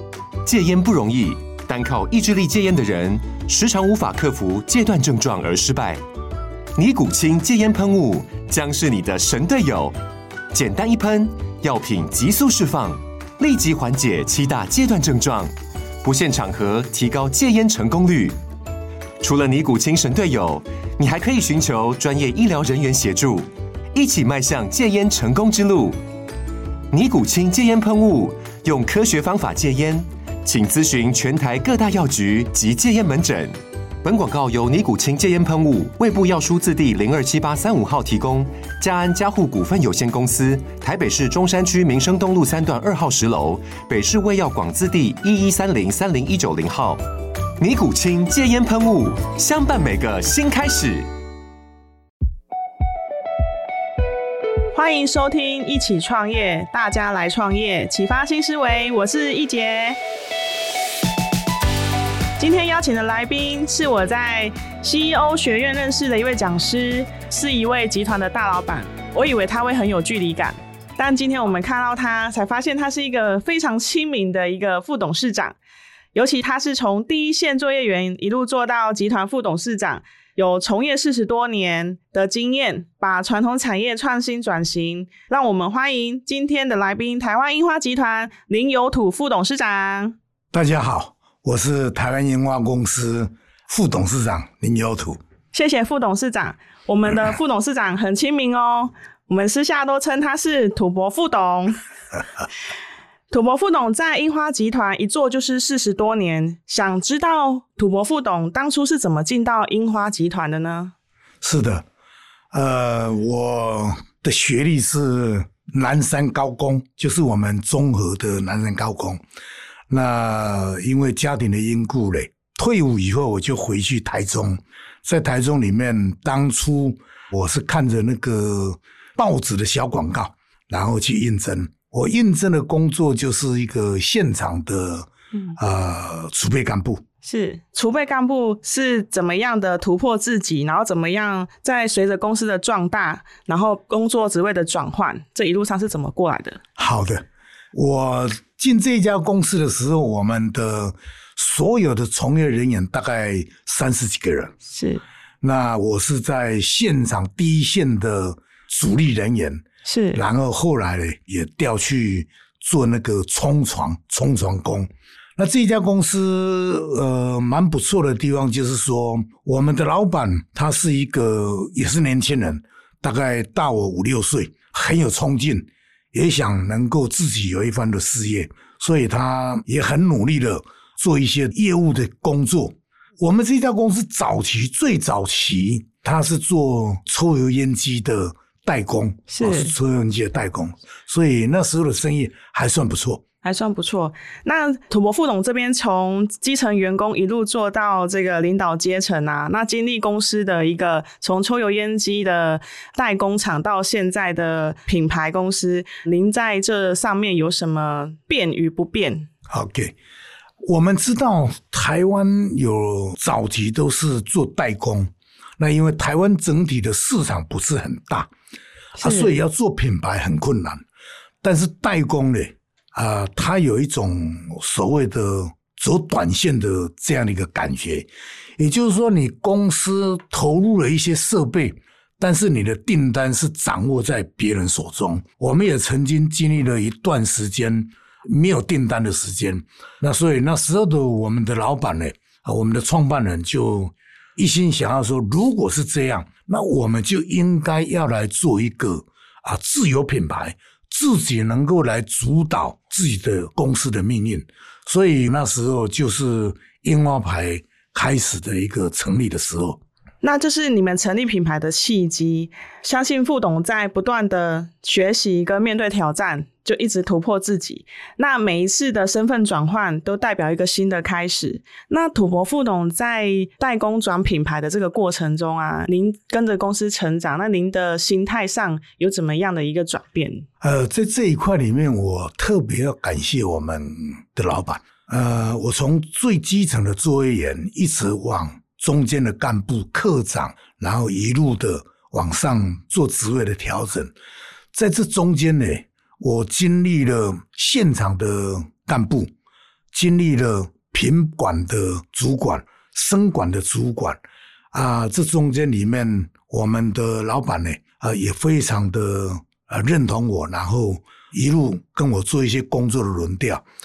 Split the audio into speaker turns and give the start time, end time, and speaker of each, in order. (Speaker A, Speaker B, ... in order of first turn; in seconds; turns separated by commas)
Speaker A: 0.5-6.0, Speaker A: 6.8-9.9, Speaker A: 10.5-18.4, Speaker A: 19.2-26.0, Speaker A: 26.9-47.0, Speaker A: 47.6-51.1, Speaker B: 54.7-60.0, Speaker B: 62.4-75.6, Speaker B: 76.1-90.2, Speaker C: 90.5-95.2, Speaker B: 95.5-101.8, Speaker B: 103.3-110.9, Speaker C: 111.4-111.9, Speaker C: 112.5-119.2, Speaker C: 119.9-137.0, Speaker B: 137.2-146.6, Speaker C: 146.8-154.6, Speaker B: 154.7-155.0, Speaker C: 155.4-193.2, Speaker B: 159.9-160.2, Speaker B: 189.3-189.7, Speaker B: 193.4-209.3, Speaker C: 209.5-210.0, Speaker C: 210.6-218.3, Speaker B: 219.0-219.3, Speaker C: 219.0-220.8, Speaker C: 221.4-259.8, Speaker B: 260.2-280.5, Speaker C: 280.6-294.1, Speaker C: 294.7-299.3, Speaker C: 299.9-304.2, Speaker C: 304.7-313.6